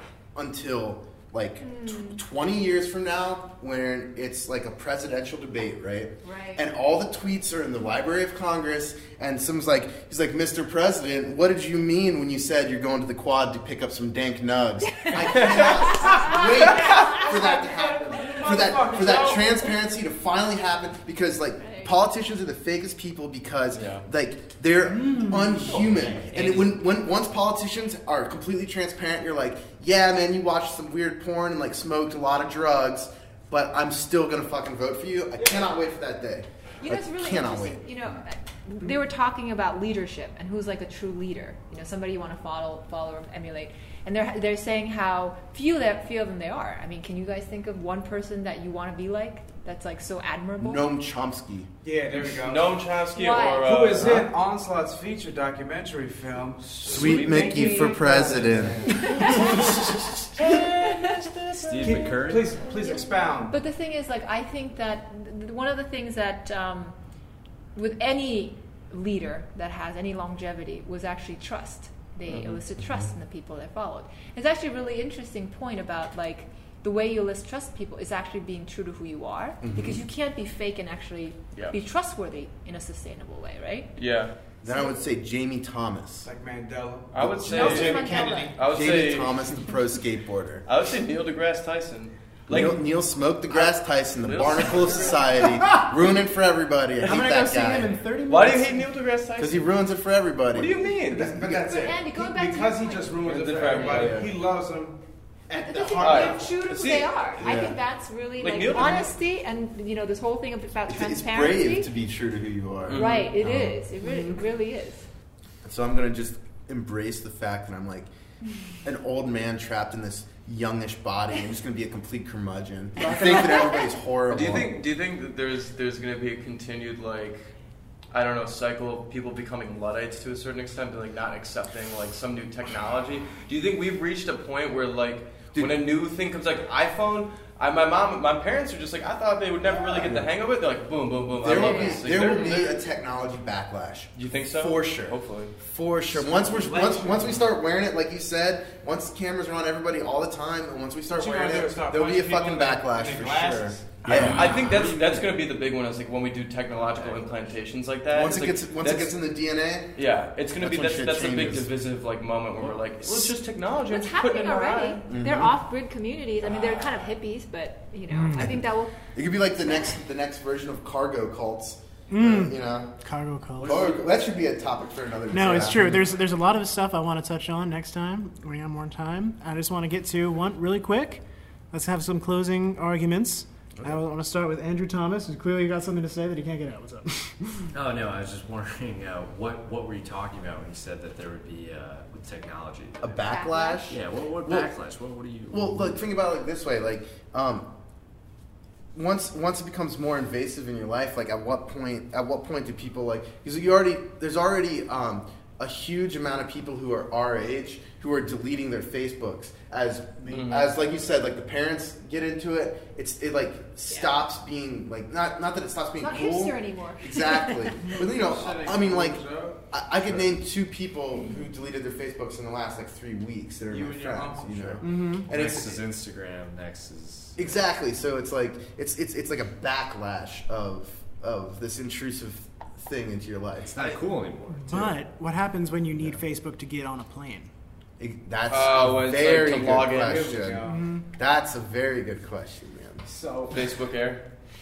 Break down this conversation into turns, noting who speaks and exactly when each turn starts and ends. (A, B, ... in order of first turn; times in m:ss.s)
0:00.3-0:37.8 A
0:01.6-0:02.2 B
0:06.2-0:06.7 B
0:15.2-0:15.8 C
0:16.3-0:19.7 D
0:21.6-0:21.9 B
0:23.7-0:24.0 C
0:25.0-0:25.6 E
0:25.8-0:26.3 D
0:26.3-0:26.7 C
0:35.4-0:35.7 D
0:36.8-0:50.9 B
0:50.6-0:51.7 A
0:51.8-0:52.8 D
0:52.4-0:54.3 C
0:53.1-0:53.7 B
0:53.6-1:01.0 D
0:56.8-1:02.0 C
0:56.9-0:59.1 A
0:59.0-0:59.7 B
1:00.8-1:01.1 B
1:01.7-1:02.7 F
1:01.8-1:03.6 D
1:02.8-1:07.0 B
1:07.7-1:23.9 B
1:12.3-1:12.6 C
1:19.6-1:20.0 A
1:24.0-1:24.3 C
1:24.6-1:26.3 A
1:26.2-1:28.6 D
1:27.1-1:29.5 C
1:27.4-1:27.7 A
1:27.5-1:28.5 B
1:28.7-1:30.6 A
1:30.6-1:32.8 C
1:32.5-1:38.0 A
1:34.2-1:35.3 C
1:34.6-1:35.2 D
1:37.0-1:38.9 E
1:38.3-1:39.7 C
1:39.4-1:40.8 A
1:40.5-1:41.4 C
1:41.1-1:46.5 D
1:41.4-1:41.7 A
1:41.6-1:43.2 B
1:43.2-1:44.3 C
1:43.9-1:44.2 A
1:45.6-1:51.9 B
1:46.0-1:47.1 C
1:47.4-1:47.8 A
1:48.4-1:49.1 C
1:50.9-1:53.8 A
1:52.9-1:53.3 C
1:52.9-1:55.1 B
1:54.0-1:54.4 E
1:55.6-1:58.1 A
1:58.8-2:04.7 A
2:03.2-2:03.8 B
2:04.3-2:07.5 C
2:08.1-2:22.8 C
2:15.5-2:15.8 A
2:19.9-2:20.3 A
2:21.4-2:35.2 A
2:21.4-2:22.0 B
2:24.2-2:25.5 C
2:26.1-2:27.4 D
2:31.1-2:34.9 D
2:34.0-2:39.2 C
2:34.1-2:35.1 F
2:38.1-2:40.0 A
2:39.9-2:45.0 C
2:40.6-2:41.7 A
2:43.9-2:49.0 B
2:45.1-2:45.6 A
2:48.1-2:48.6 E
2:49.1-2:52.9 A
2:52.1-2:53.9 E
2:53.6-2:56.0 A
2:53.7-2:53.9 D
2:55.3-3:07.7 E
3:07.7-3:13.0 F
3:13.0-3:14.7 A
3:13.2-3:13.9 B
3:13.9-3:16.0 F
3:15.5-3:17.7 A
3:18.9-3:45.8 A
3:30.3-3:30.7 C
3:36.0-3:37.9 B
3:38.0-3:39.6 D
3:43.7-3:44.8 D
3:44.8-3:45.3 E
3:45.1-3:47.6 F
3:47.4-3:54.0 A
3:53.7-3:54.9 F
3:54.6-3:57.5 E
3:58.0-4:03.0 A
3:58.5-4:00.3 C
3:59.9-4:00.9 D
4:00.6-4:01.0 E
4:03.0-4:03.8 D
4:03.5-4:04.2 C